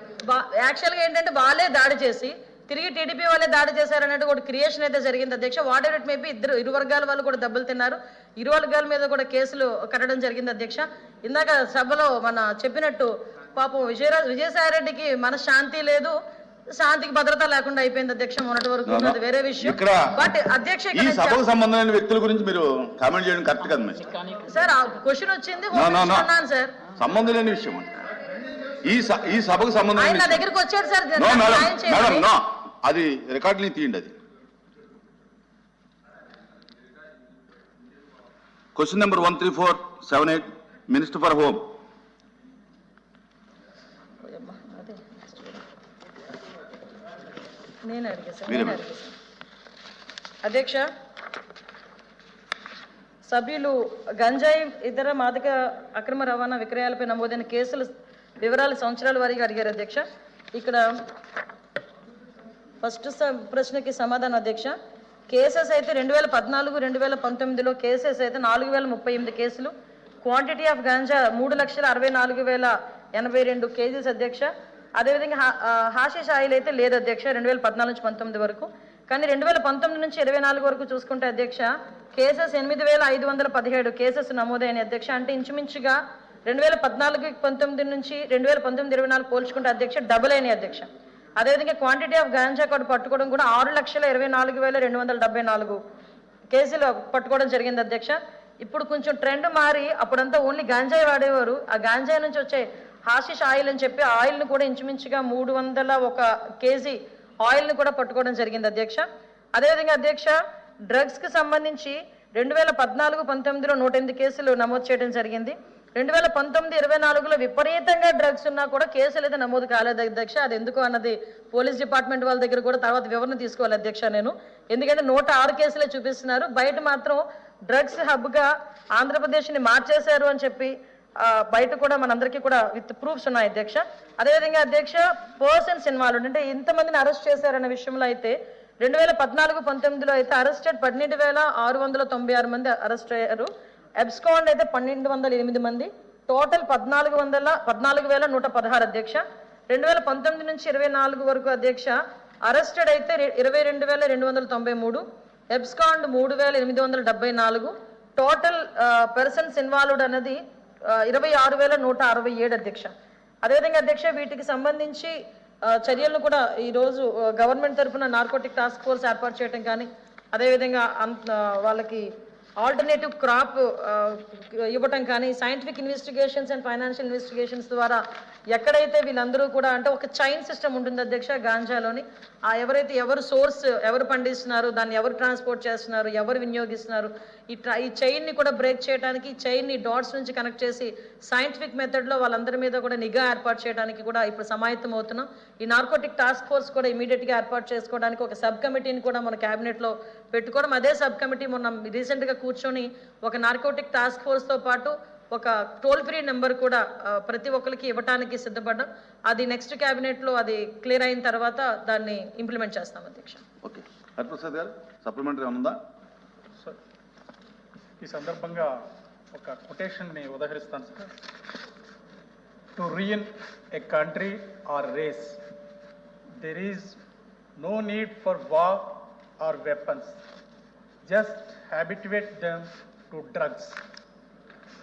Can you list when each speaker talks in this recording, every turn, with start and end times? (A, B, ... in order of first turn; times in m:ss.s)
0:00.2-0:16.2 A
0:16.7-0:21.4 A
0:18.9-0:20.3 B
0:20.9-0:24.2 B
0:24.3-0:26.8 A
0:25.7-0:26.3 B
0:27.0-0:27.9 B
0:28.8-0:30.4 B
0:29.9-0:32.3 A
0:31.2-0:34.1 B
0:38.8-0:41.7 B
0:44.2-0:45.6 A
0:47.8-0:49.2 A
0:48.5-0:48.8 B
0:50.4-0:50.9 A
0:53.3-0:57.9 A
0:58.4-1:00.8 A
1:02.8-1:04.7 A
1:05.3-1:35.8 A
1:36.5-1:50.4 A
1:50.9-2:42.9 A
2:43.4-2:52.1 A
2:52.6-3:33.4 A
3:33.6-3:35.8 B
3:38.0-3:38.7 C
3:39.3-3:41.1 C
3:42.8-3:45.4 C
3:46.4-3:47.0 C
3:47.6-3:50.2 C
3:51.1-3:53.8 C